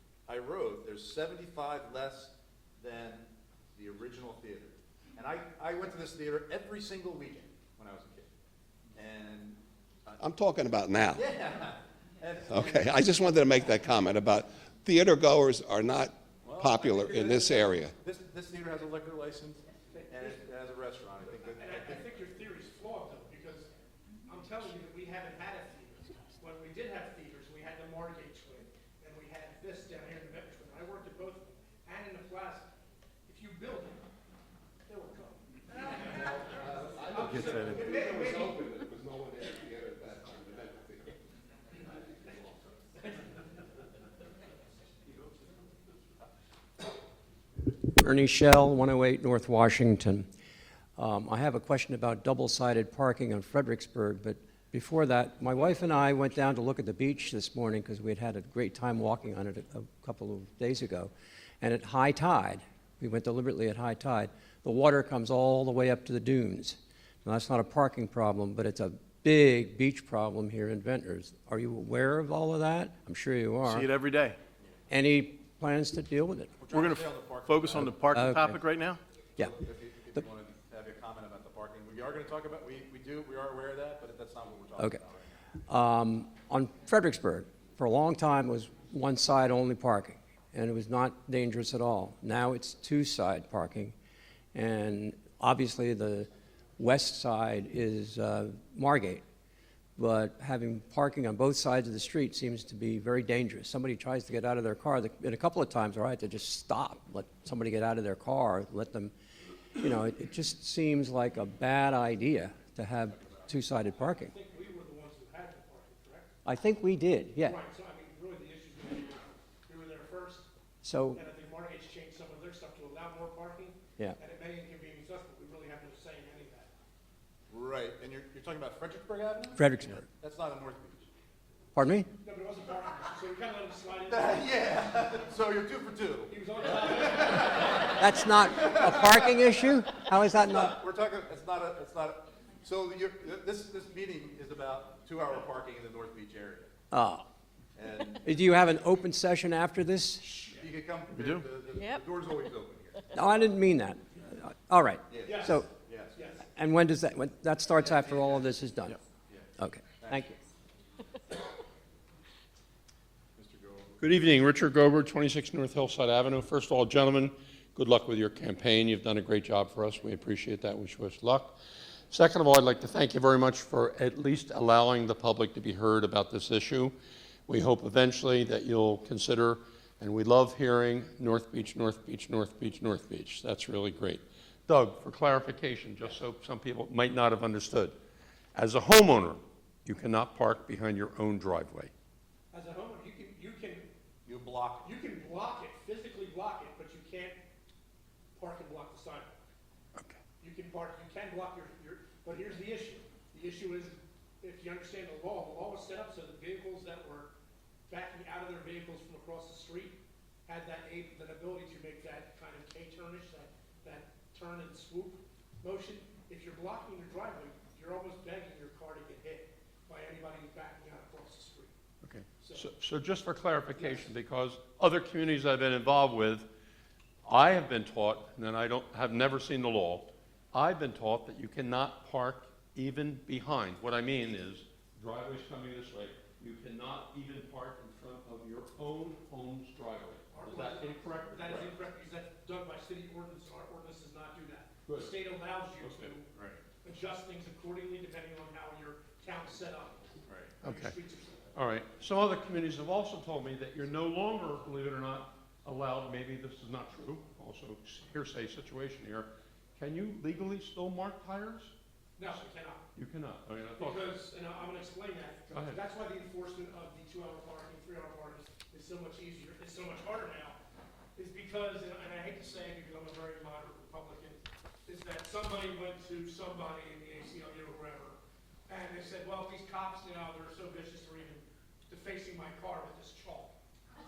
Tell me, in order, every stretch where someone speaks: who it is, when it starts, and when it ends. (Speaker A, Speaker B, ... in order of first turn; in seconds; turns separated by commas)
Speaker A: 0.3-8.3, Speaker A: 8.9-10.2, Speaker B: 10.2-11.2, Speaker A: 11.1-13.3, Speaker B: 12.5-17.9, Speaker A: 16.4-22.0, Speaker C: 19.9-20.4, Speaker C: 21.6-23.7, Speaker C: 24.3-32.7, Speaker C: 33.3-34.0, Speaker C: 34.9-38.8, Speaker B: 36.7-41.1, Speaker D: 37.1-37.9, Speaker E: 47.9-50.3, Speaker E: 51.0-73.9, Speaker D: 73.7-74.4, Speaker E: 74.9-76.5, Speaker A: 76.6-78.3, Speaker D: 76.7-79.0, Speaker E: 77.8-78.6, Speaker A: 79.4-85.4, Speaker E: 85.7-93.9, Speaker E: 94.5-99.2, Speaker E: 100.0-109.1, Speaker E: 109.8-114.3, Speaker C: 114.0-116.3, Speaker E: 116.5-117.6, Speaker C: 117.4-120.5, Speaker E: 120.8-121.2, Speaker C: 121.1-126.7, Speaker A: 127.5-131.1, Speaker E: 129.6-130.0, Speaker E: 131.8-132.1, Speaker C: 132.2-134.8, Speaker A: 134.1-137.8, Speaker C: 136.3-138.0, Speaker E: 137.9-140.8, Speaker A: 138.6-138.9, Speaker A: 140.5-146.7, Speaker E: 146.9-147.2, Speaker A: 147.8-148.3, Speaker E: 148.2-150.3, Speaker A: 150.4-153.1, Speaker D: 151.1-151.4, Speaker E: 153.1-155.7, Speaker A: 155.1-156.3, Speaker C: 155.2-155.6, Speaker C: 156.2-156.5, Speaker E: 156.5-159.0, Speaker A: 157.8-158.5, Speaker A: 159.3-160.3, Speaker E: 159.6-160.4, Speaker A: 163.3-163.9, Speaker F: 164.0-171.6, Speaker F: 172.1-176.9, Speaker F: 177.5-188.0, Speaker F: 188.6-191.9, Speaker C: 192.5-193.9, Speaker A: 194.3-194.9, Speaker C: 194.8-197.4, Speaker C: 198.3-199.5, Speaker C: 200.4-207.3, Speaker C: 207.9-221.7, Speaker F: 222.0-226.5, Speaker C: 222.4-222.7, Speaker C: 223.8-224.1, Speaker F: 227.2-241.7, Speaker C: 240.3-246.3, Speaker F: 244.9-245.1, Speaker F: 245.8-246.1, Speaker A: 246.3-246.6, Speaker C: 246.8-250.1, Speaker A: 250.3-250.5, Speaker C: 250.6-251.4, Speaker F: 250.6-250.9, Speaker F: 251.6-261.7, Speaker C: 262.2-262.8, Speaker F: 262.9-264.2, Speaker C: 263.8-270.6, Speaker F: 265.5-265.8, Speaker C: 271.2-283.5